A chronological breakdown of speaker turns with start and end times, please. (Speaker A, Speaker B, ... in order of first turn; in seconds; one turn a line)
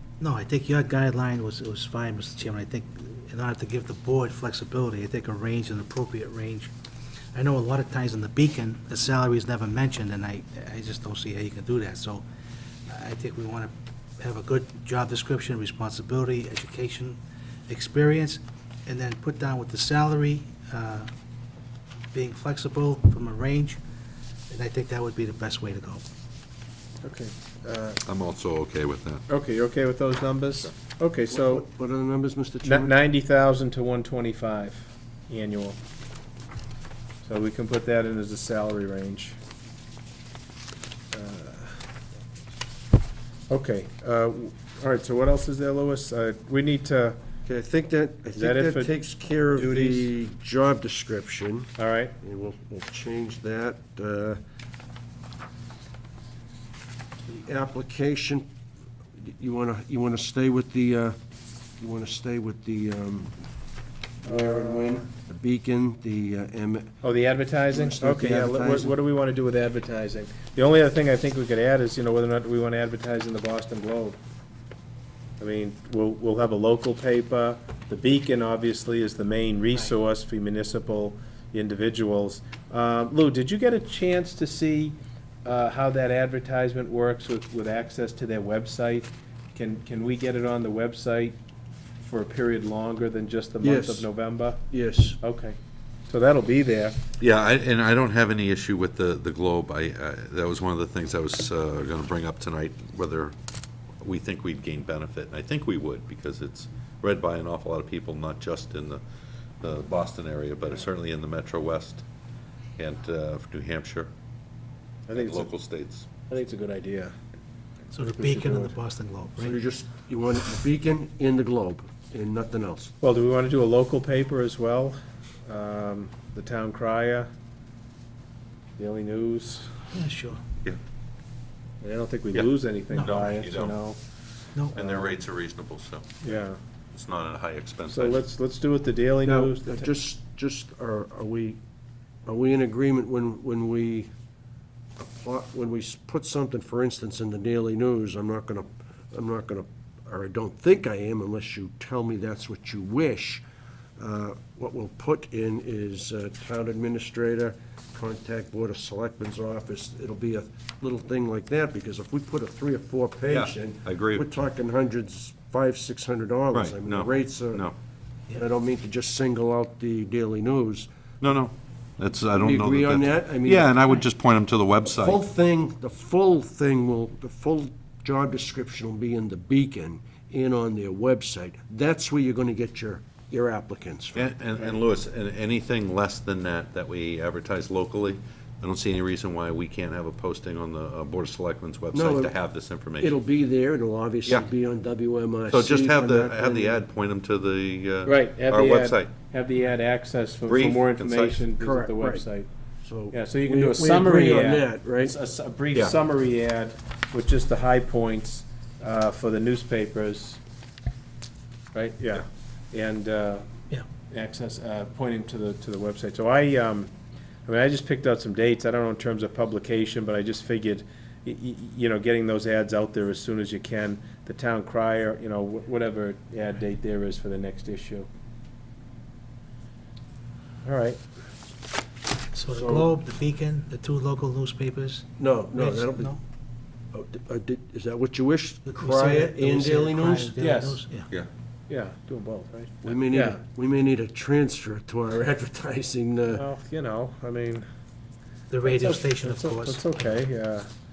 Speaker A: 0.2-6.7
Speaker A: 7.3-12.2
Speaker A: 12.9-21.1
Speaker A: 22.1-23.8
Speaker A: 24.5-26.0
Speaker B: 27.0-28.0
Speaker C: 28.1-29.3
Speaker B: 29.3-31.6
Speaker D: 31.3-33.0
Speaker B: 32.6-35.8
Speaker B: 37.2-39.4
Speaker B: 41.1-41.8
Speaker B: 43.5-47.2
Speaker D: 47.5-54.4
Speaker B: 48.3-48.9
Speaker B: 49.5-50.1
Speaker B: 51.8-52.2
Speaker D: 57.3-58.5
Speaker D: 59.2-61.2
Speaker D: 61.8-63.3
Speaker D: 64.2-67.0
Speaker B: 64.3-64.8
Speaker B: 67.0-74.2
Speaker D: 67.7-69.0
Speaker B: 75.4-91.4
Speaker B: 92.0-94.6
Speaker D: 93.6-94.1
Speaker D: 94.7-95.2
Speaker B: 95.2-95.6
Speaker B: 96.1-97.0
Speaker C: 97.2-103.3
Speaker C: 104.0-109.0
Speaker C: 109.6-112.1
Speaker C: 112.8-114.1
Speaker B: 115.1-115.5
Speaker C: 115.1-116.1
Speaker B: 116.3-117.1
Speaker A: 117.9-119.6
Speaker B: 118.2-118.7
Speaker D: 119.4-122.9
Speaker B: 123.0-127.3
Speaker B: 128.8-129.7
Speaker A: 129.9-130.4
Speaker B: 131.8-134.0
Speaker C: 132.3-133.8
Speaker C: 134.7-136.1
Speaker B: 134.7-135.1
Speaker B: 136.2-136.6
Speaker C: 136.9-138.2
Speaker B: 137.9-139.9
Speaker D: 139.2-141.6
Speaker D: 142.3-144.1
Speaker D: 145.0-153.4
Speaker D: 154.0-167.7
Speaker C: 163.3-164.3
Speaker C: 166.5-167.8
Speaker D: 168.3-170.9
Speaker C: 171.2-175.2
Speaker D: 172.4-173.7
Speaker D: 174.9-184.3
Speaker C: 184.2-193.2
Speaker D: 191.9-192.3
Speaker D: 193.0-196.8
Speaker C: 195.5-199.1
Speaker B: 198.1-202.5
Speaker C: 200.5-201.4
Speaker D: 201.6-202.3
Speaker D: 202.8-205.1
Speaker B: 203.1-210.4
Speaker B: 211.7-213.5
Speaker B: 214.1-216.9
Speaker B: 217.5-228.1
Speaker B: 230.6-231.0
Speaker A: 232.3-236.2
Speaker D: 232.5-232.9
Speaker D: 235.2-236.1
Speaker D: 236.9-240.3
Speaker A: 238.7-241.1
Speaker B: 240.4-240.8
Speaker B: 241.7-243.4
Speaker D: 242.8-246.4
Speaker B: 246.3-247.7
Speaker A: 248.5-250.1
Speaker B: 248.7-250.7